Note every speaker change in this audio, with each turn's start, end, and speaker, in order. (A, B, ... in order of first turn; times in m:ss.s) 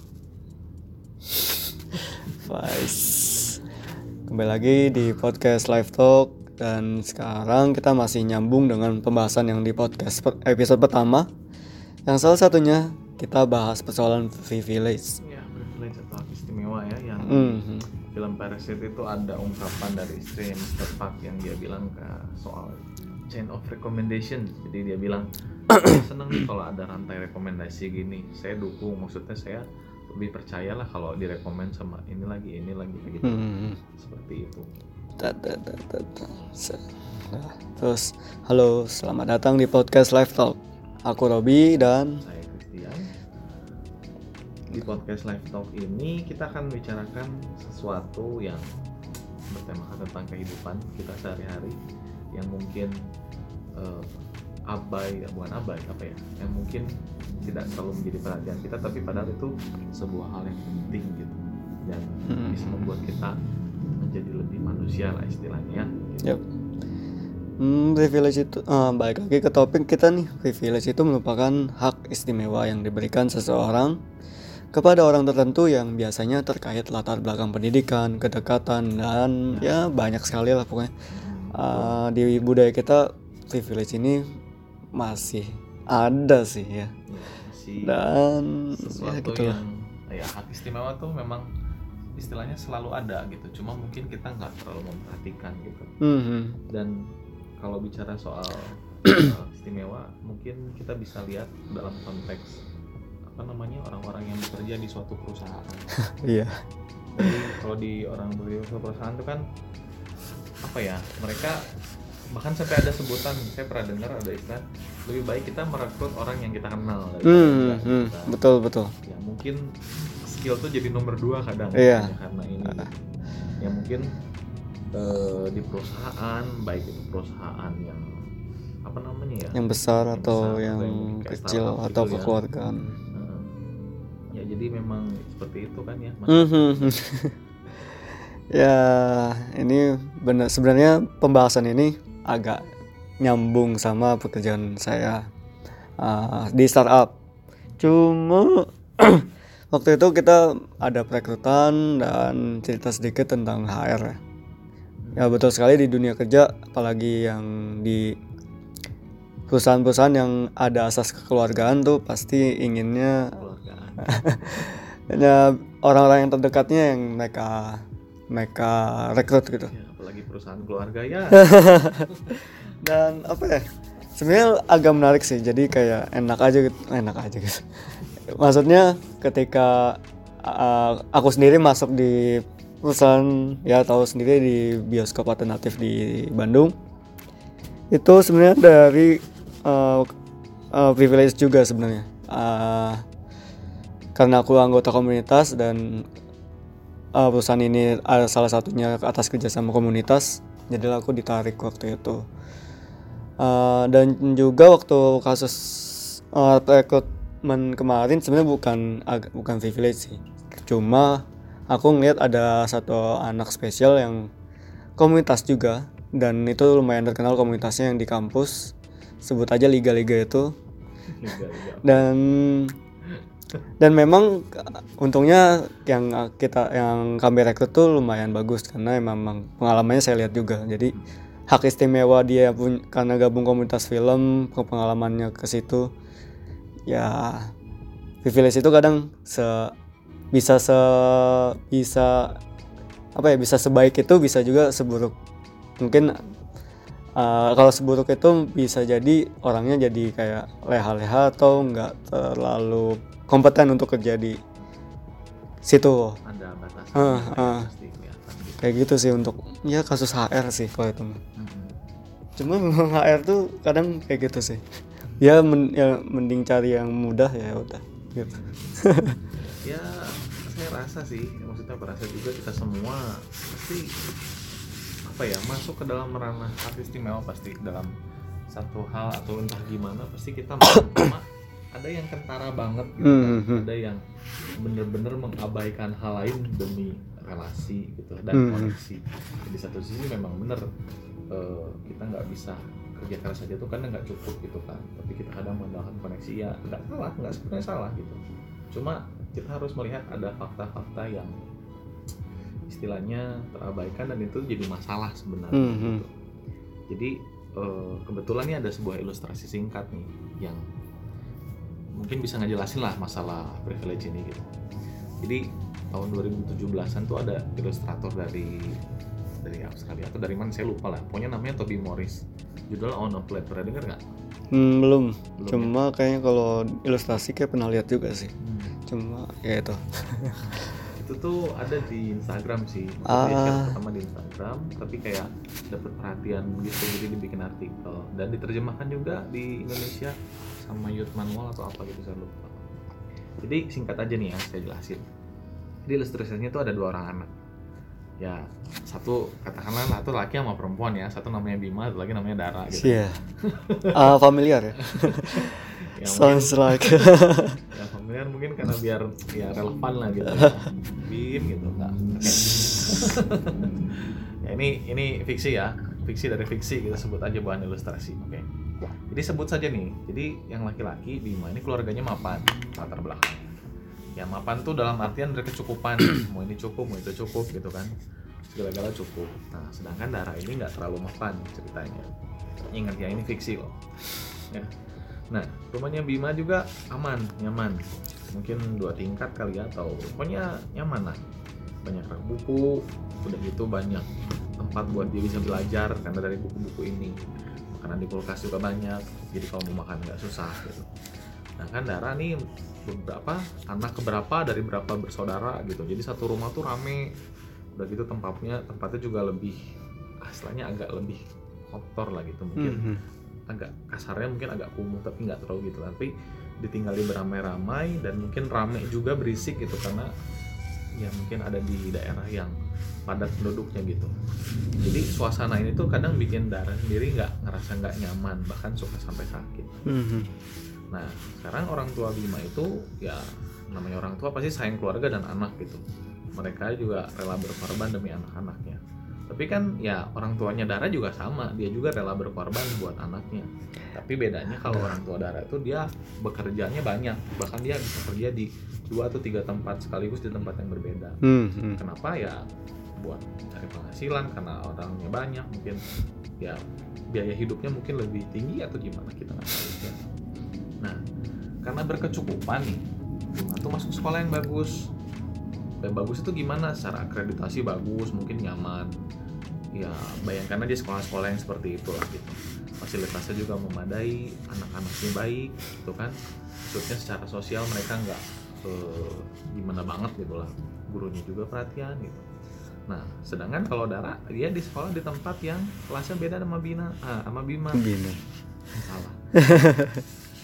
0:02.3-0:03.6 A
0:04.3-0:11.3 A
0:12.1-0:15.2 A
0:15.2-0:34.7 B
0:17.2-0:17.9 A
0:33.2-0:33.8 A
0:35.2-0:42.2 A
0:42.2-0:43.1 B
0:44.7-0:48.6 B
0:49.5-0:51.8 B
0:52.3-0:52.9 B
0:53.8-0:54.1 B
0:54.7-0:56.9 B
0:57.4-1:03.3 B
1:02.3-1:02.6 A
1:04.0-1:06.4 B
1:07.6-1:14.0 A
1:14.7-1:20.9 A
1:21.1-1:22.0 B
1:21.5-1:24.2 A
1:25.0-1:26.9 A
1:27.1-1:28.0 B
1:27.8-1:29.6 A
1:28.7-1:31.5 B
1:32.2-1:35.9 B
1:36.0-1:36.6 A
1:36.7-1:37.0 B
1:37.6-1:42.6 B
1:43.3-1:45.9 B
1:46.0-1:46.6 A
1:47.2-1:49.4 B
1:50.6-1:51.6 B
1:52.3-1:58.4 B
1:57.2-1:58.9 A
1:59.0-1:59.7 B
2:00.2-2:02.9 B
2:01.8-2:02.1 A
2:03.6-2:04.1 B
2:04.9-2:08.0 B
2:08.8-2:09.6 B
2:09.5-2:13.0 A
2:10.1-2:12.4 B
2:13.1-2:13.6 B
2:14.3-2:16.9 B
2:16.3-2:17.3 A
2:18.5-2:22.6 A
2:23.2-2:25.2 A
2:26.0-2:27.1 A
2:27.8-2:34.2 A
2:35.0-2:35.4 B
2:35.2-2:38.1 A
2:39.5-2:43.4 A
2:43.4-2:44.2 B
2:44.0-2:49.7 A
2:49.7-2:52.4 B
2:51.3-3:06.7 A
3:07.9-3:10.1 A
3:10.7-3:13.0 A
3:14.2-3:16.0 A
3:17.2-3:22.2 A
3:23.4-3:34.3 A
3:35.0-3:38.7 A
3:39.2-3:40.5 A
3:41.1-3:42.1 B
3:41.8-3:42.8 A
3:43.8-3:50.9 A
3:51.5-3:55.9 A
3:56.9-3:57.5 A
3:58.2-3:59.7 A
4:00.3-4:02.3 A
4:03.2-4:05.1 A
4:05.8-4:06.2 A
4:07.2-4:14.4 A
4:15.6-4:16.2 A
4:16.2-4:18.6 B
4:17.0-4:17.6 A
4:18.6-4:21.2 A
4:21.4-4:21.7 B
4:22.4-4:24.6 A
4:25.2-4:29.2 A
4:29.4-4:33.9 B
4:35.0-4:37.9 B
4:38.5-4:44.0 B
4:43.0-4:43.6 A
4:44.6-4:50.7 B
4:48.3-4:48.7 A
4:51.3-4:58.2 B
4:58.7-5:01.3 B
5:02.7-5:06.1 B
5:05.5-5:06.0 A
5:06.9-5:10.6 B
5:12.0-5:14.5 B
5:15.2-5:18.8 B
5:19.4-5:24.0 B
5:24.5-5:28.3 A
5:25.4-5:25.7 B
5:28.4-5:28.7 B
5:28.9-5:30.4 A
5:31.0-5:42.6 B
5:33.1-5:33.8 A
5:43.4-5:45.0 B
5:45.8-5:47.3 B
5:48.2-5:54.1 B
5:52.7-5:53.2 A
5:53.9-5:57.6 A
5:54.9-5:57.1 B
5:57.7-6:08.5 B
6:09.1-6:13.5 B
6:14.2-6:17.9 B
6:18.5-6:22.1 B
6:22.7-6:23.8 B
6:25.3-6:31.2 B
6:31.8-6:37.2 B
6:37.7-6:40.9 B
6:41.6-6:47.1 B
6:47.8-6:49.6 B
6:50.2-6:52.9 B
6:52.6-6:53.0 A
6:53.5-7:00.1 B
7:01.0-7:02.5 B
7:03.1-7:04.1 B
7:04.8-7:09.8 B
7:09.8-7:10.3 A
7:10.9-7:15.8 B
7:16.3-7:31.2 B
7:31.2-7:31.8 A
7:31.8-7:32.4 B
7:33.0-7:35.8 B
7:37.1-7:40.0 B
7:41.6-7:42.8 B
7:43.3-7:44.9 B
7:45.8-7:48.9 B
7:49.8-8:02.2 B
8:02.9-8:07.8 B
8:07.7-8:08.2 A
8:08.7-8:09.2 B
8:09.4-8:10.0 A